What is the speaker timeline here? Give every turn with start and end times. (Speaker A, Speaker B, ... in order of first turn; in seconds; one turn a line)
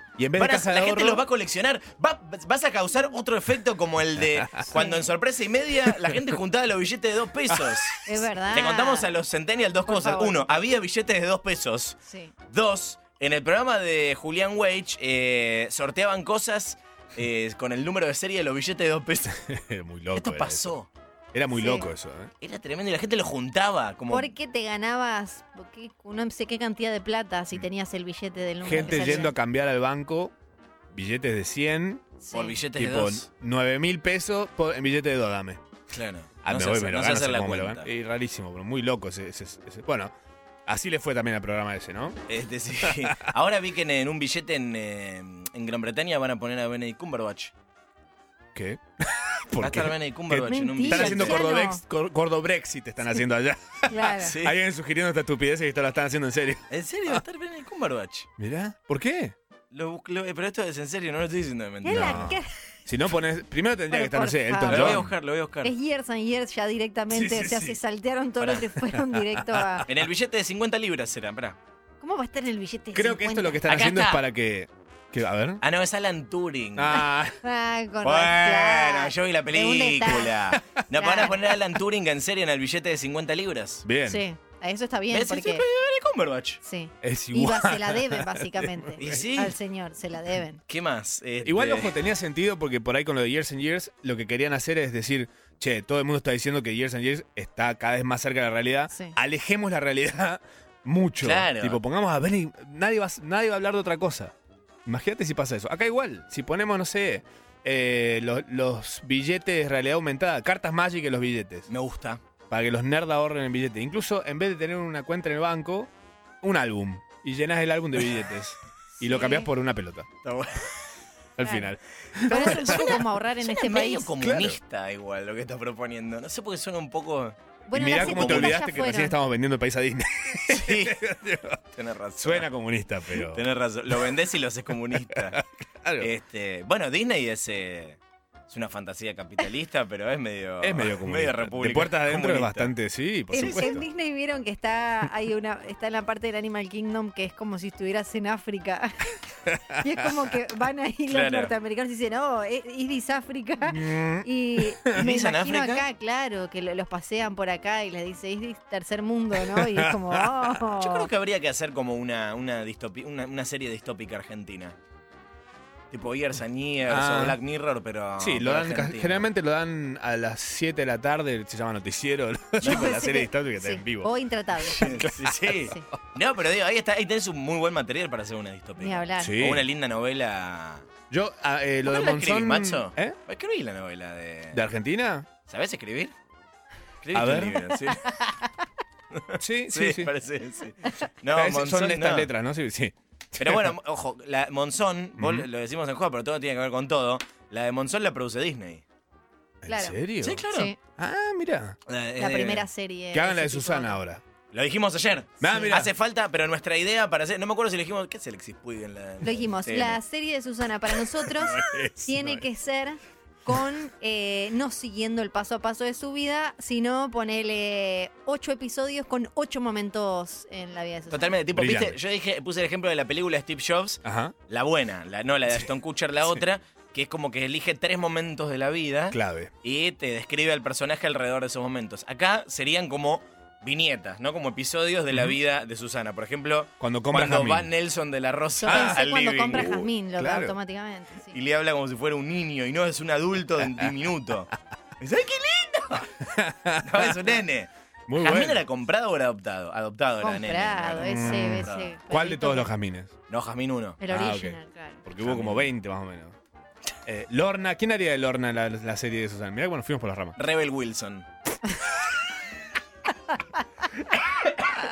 Speaker A: 0.2-1.2
Speaker B: 0.4-12.0
Speaker A: 4.4-4.7
Speaker C: 4.7-5.0
Speaker A: 7.5-8.0
Speaker C: 8.1-9.1
Speaker C: 9.9-10.5
Speaker C: 12.1-12.3
Speaker B: 12.5-19.4
Speaker A: 19.4-20.7
Speaker B: 20.1-20.9
Speaker A: 21.3-22.3
Speaker C: 21.5-21.9
Speaker B: 22.4-24.3
Speaker C: 24.1-29.3
Speaker A: 28.6-30.3
Speaker B: 28.8-29.3
Speaker A: 30.9-32.1
Speaker C: 32.2-32.6
Speaker B: 32.3-33.3
Speaker A: 32.7-35.6
Speaker B: 35.9-37.9
Speaker A: 36.4-40.1
Speaker A: 40.7-42.2
Speaker B: 42.3-47.5
Speaker A: 42.8-43.3
Speaker A: 48.5-57.2
Speaker B: 49.6-51.4
Speaker C: 50.5-51.8
Speaker C: 53.9-54.4
Speaker B: 54.2-54.6
Speaker B: 56.7-58.3
Speaker A: 58.4-59.4
Speaker B: 59.7-62.3
Speaker C: 61.8-62.5
Speaker A: 61.9-65.1
Speaker C: 63.9-65.0
Speaker B: 64.7-65.7
Speaker C: 65.6-69.9
Speaker A: 67.1-67.8
Speaker B: 68.4-68.7
Speaker A: 68.9-69.7
Speaker B: 69.9-71.6
Speaker C: 72.0-73.7
Speaker A: 72.9-75.6
Speaker B: 73.7-74.2
Speaker B: 75.6-77.0
Speaker A: 76.8-77.4
Speaker C: 77.4-80.3
Speaker B: 78.0-83.8
Speaker A: 80.5-81.4
Speaker C: 81.0-81.4
Speaker A: 83.8-84.2
Speaker C: 84.1-85.6
Speaker B: 85.1-86.6
Speaker C: 86.6-90.6
Speaker A: 87.0-89.3
Speaker B: 89.0-89.5
Speaker B: 90.7-91.9
Speaker A: 91.4-104.3
Speaker B: 101.2-101.8
Speaker A: 104.9-111.7
Speaker B: 111.7-112.2
Speaker A: 112.5-115.9
Speaker A: 116.4-120.1
Speaker C: 119.0-119.5
Speaker B: 120.2-120.7
Speaker A: 121.4-123.0
Speaker C: 121.4-121.7
Speaker B: 122.3-127.3
Speaker C: 122.3-124.1
Speaker A: 124.2-124.6
Speaker C: 127.7-129.2
Speaker A: 127.7-131.6
Speaker B: 127.9-128.6
Speaker B: 130.5-131.0
Speaker B: 131.7-132.5
Speaker A: 132.2-133.5
Speaker B: 133.2-135.4
Speaker A: 135.1-136.1
Speaker B: 136.0-142.7
Speaker A: 140.6-143.8
Speaker C: 143.3-161.1
Speaker B: 143.4-143.8
Speaker A: 149.5-149.7
Speaker B: 151.1-151.5
Speaker A: 153.6-155.1
Speaker B: 154.9-155.8
Speaker A: 159.4-160.5
Speaker B: 160.8-164.8
Speaker B: 165.9-169.3
Speaker A: 166.9-167.4
Speaker A: 168.2-175.8
Speaker B: 172.6-172.9
Speaker C: 172.6-174.9
Speaker B: 174.8-180.9
Speaker C: 178.8-179.3
Speaker A: 179.2-179.7
Speaker A: 181.1-183.2
Speaker B: 181.8-184.6
Speaker A: 184.5-185.3
Speaker B: 185.5-186.1
Speaker B: 187.0-188.1
Speaker A: 187.1-187.6
Speaker C: 187.9-188.4
Speaker B: 189.1-192.3
Speaker A: 189.4-190.1
Speaker A: 191.3-193.7
Speaker B: 193.4-198.8
Speaker A: 195.2-195.5
Speaker A: 199.6-200.4
Speaker C: 199.7-199.9
Speaker B: 200.2-200.7
Speaker C: 200.5-200.8
Speaker A: 201.0-201.8
Speaker B: 201.9-202.7
Speaker C: 202.2-204.0
Speaker A: 203.1-204.2
Speaker B: 204.5-210.0
Speaker A: 205.4-205.9
Speaker C: 209.2-221.4
Speaker A: 211.3-212.4
Speaker B: 221.1-239.7
Speaker A: 221.5-222.0
Speaker A: 224.0-224.3
Speaker A: 229.1-229.5
Speaker A: 235.1-235.4
Speaker A: 236.8-237.7
Speaker C: 238.6-241.4
Speaker A: 238.7-240.6
Speaker B: 241.3-246.3
Speaker A: 246.3-247.3
Speaker B: 246.8-251.9
Speaker A: 248.1-248.6
Speaker C: 250.2-252.7
Speaker A: 251.0-253.1
Speaker B: 253.3-254.0
Speaker C: 254.0-255.0
Speaker A: 254.1-256.4
Speaker B: 255.2-255.7
Speaker A: 257.1-260.4
Speaker B: 260.4-261.3